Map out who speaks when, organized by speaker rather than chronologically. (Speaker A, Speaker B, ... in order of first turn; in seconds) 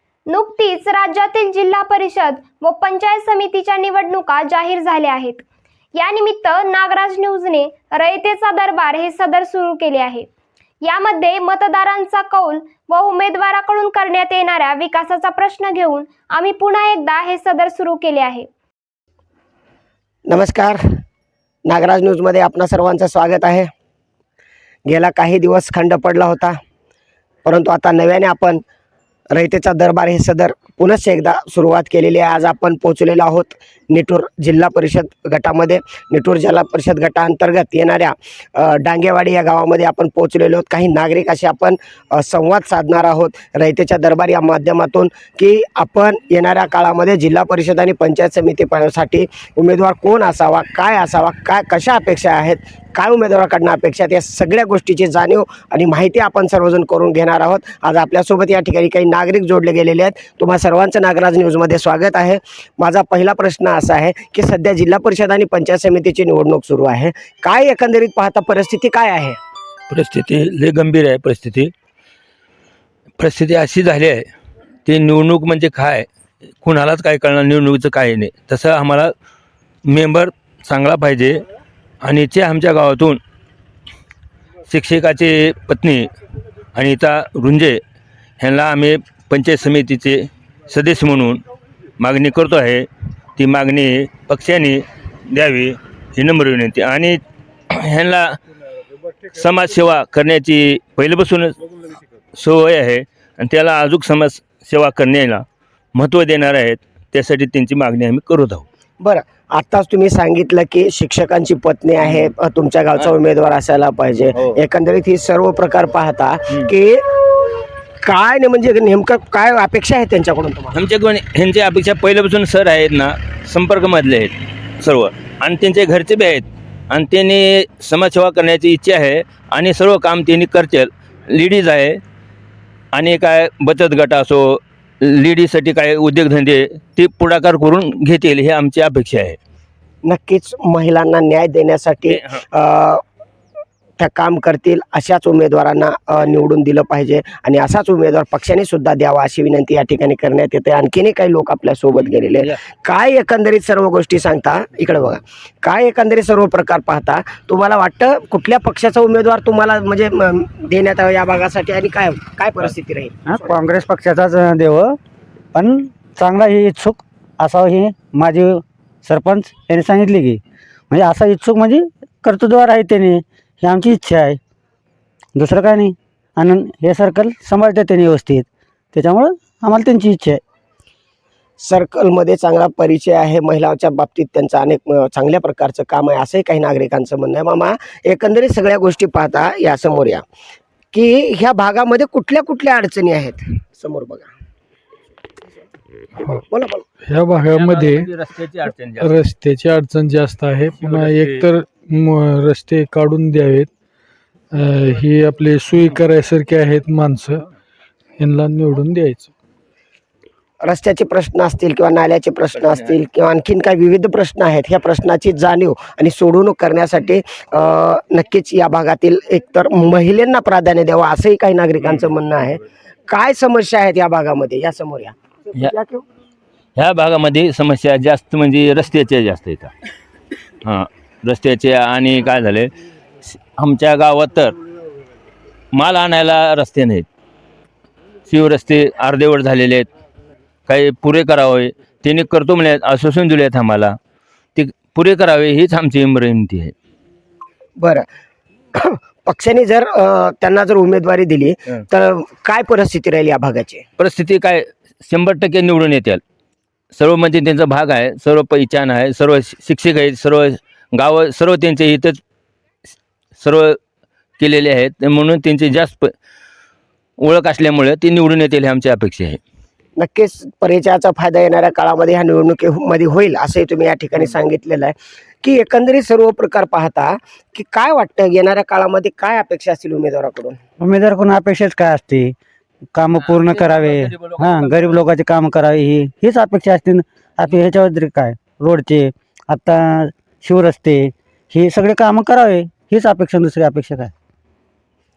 Speaker A: 0.3-5.4, 6.0-10.3, 10.8-18.5
Speaker B: 20.3-20.8, 21.6-23.7, 24.9-26.6, 27.4-28.6, 29.3-69.4, 109.0-117.0, 118.0-120.8, 140.0-143.0, 144.0-163.3, 181.6-190.2, 190.9-194.3, 196.5-196.8, 210.6-226.0, 247.8-248.1, 248.7-253.8, 270.0-280.6
Speaker C: 69.9-71.7, 73.2-74.3, 74.8-76.1, 76.6-79.1, 79.9-81.4, 82.0-83.2, 84.7-86.1, 86.7-87.8, 88.4-91.4, 92.0-98.4, 99.3-101.6, 102.3-108.6, 112.0-112.3, 120.7-132.0, 132.9-139.4, 142.1-142.4, 197.5-199.1, 200.8-201.4, 212.6-212.9, 226.8-229.7, 230.6-232.7, 233.2-234.6, 235.7-237.1, 238.3-239.9, 240.7-243.9, 244.5-246.7, 254.0-256.2, 256.9-262.2, 263.4-263.8, 264.4-266.1, 267.2-269.4, 283.1-284.9
Speaker D: 163.2-165.0, 165.5-174.4, 175.3-180.4, 280.8-282.3, 282.9-294.1
Speaker E: 196.2-196.4, 197.0-198.1, 199.0-203.7, 204.5-207.4, 208.2-209.3